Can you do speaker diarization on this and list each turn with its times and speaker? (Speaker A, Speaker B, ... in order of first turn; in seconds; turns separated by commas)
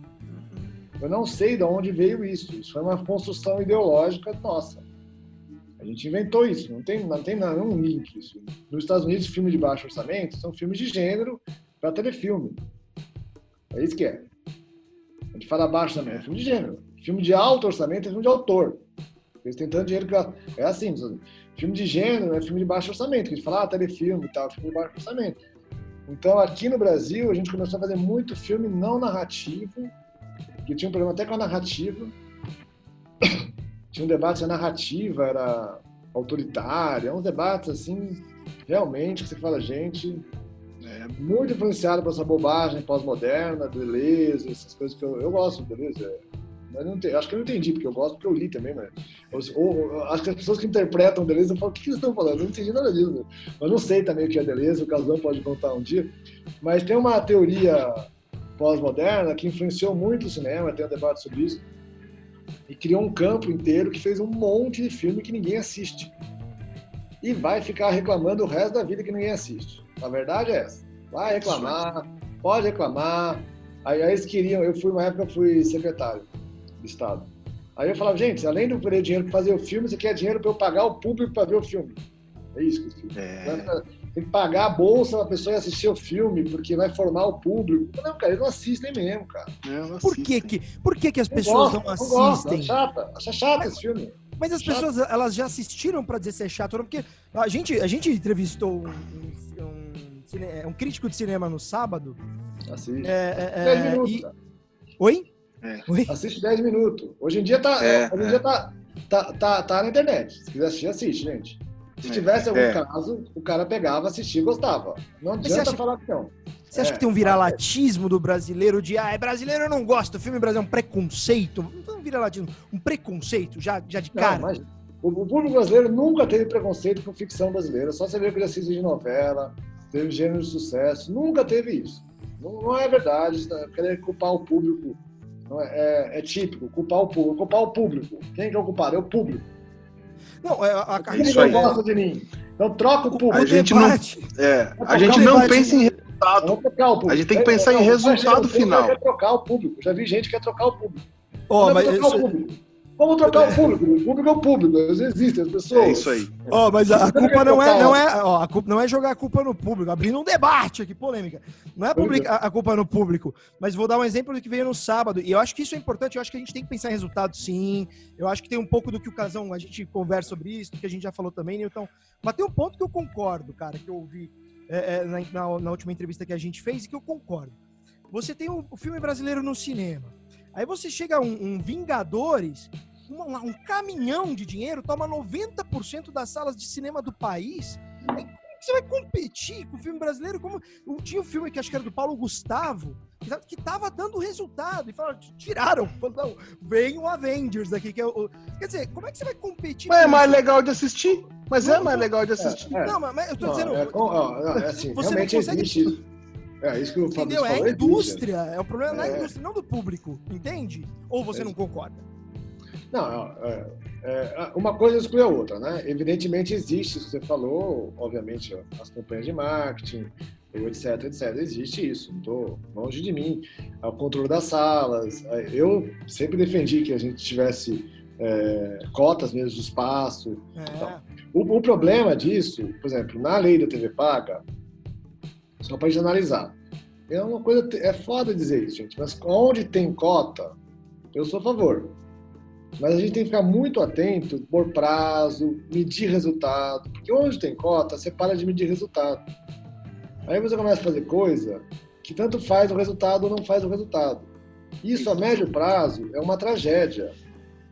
Speaker A: 0.3-0.7, Speaker B: 1.0-4.8, Speaker B: 5.8-12.6, Speaker B: 13.7-14.3, Speaker B: 15.3-18.8, Speaker B: 19.4-25.4, Speaker B: 26.1-29.9, Speaker B: 30.6-32.1, Speaker B: 33.2-40.2, Speaker A: 40.8-41.2, Speaker B: 41.2-58.1, Speaker B: 58.6-61.6, Speaker B: 62.7-66.1, Speaker B: 67.2-82.0, Speaker A: 71.2-71.8, Speaker B: 82.5-89.5, Speaker A: 83.2-83.7, Speaker A: 89.6-90.5, Speaker C: 90.0-92.8, Speaker B: 91.3-94.9, Speaker C: 94.4-102.2, Speaker B: 102.7-104.3, Speaker C: 103.0-104.3, Speaker C: 105.0-105.3, Speaker C: 105.9-106.1, Speaker B: 106.1-117.6, Speaker A: 107.8-108.4, Speaker A: 112.1-112.8, Speaker C: 115.4-115.8, Speaker C: 116.7-124.5, Speaker B: 124.1-139.5, Speaker C: 140.4-141.8, Speaker B: 141.0-143.7, Speaker A: 141.1-141.8, Speaker C: 143.1-144.3, Speaker A: 143.3-146.6, Speaker B: 144.8-145.9, Speaker C: 144.9-145.9, Speaker B: 146.4-151.0, Speaker A: 147.1-149.0, Speaker C: 151.5-152.3, Speaker B: 151.6-156.3, Speaker A: 153.3-153.7, Speaker A: 155.7-156.4, Speaker C: 156.5-177.6, Speaker B: 156.9-158.0, Speaker B: 161.9-162.3, Speaker C: 178.1-200.4, Speaker A: 199.9-202.7, Speaker C: 201.6-202.1, Speaker B: 202.4-206.0, Speaker C: 202.8-204.0, Speaker C: 204.6-205.9, Speaker B: 206.6-208.3, Speaker C: 207.2-212.0, Speaker B: 208.9-209.3, Speaker B: 212.9-234.4, Speaker C: 230.6-231.0, Speaker B: 235.6-236.6, Speaker B: 237.1-240.6, Speaker B: 241.1-242.0, Speaker B: 242.8-249.2, Speaker B: 250.3-254.3, Speaker B: 254.8-257.1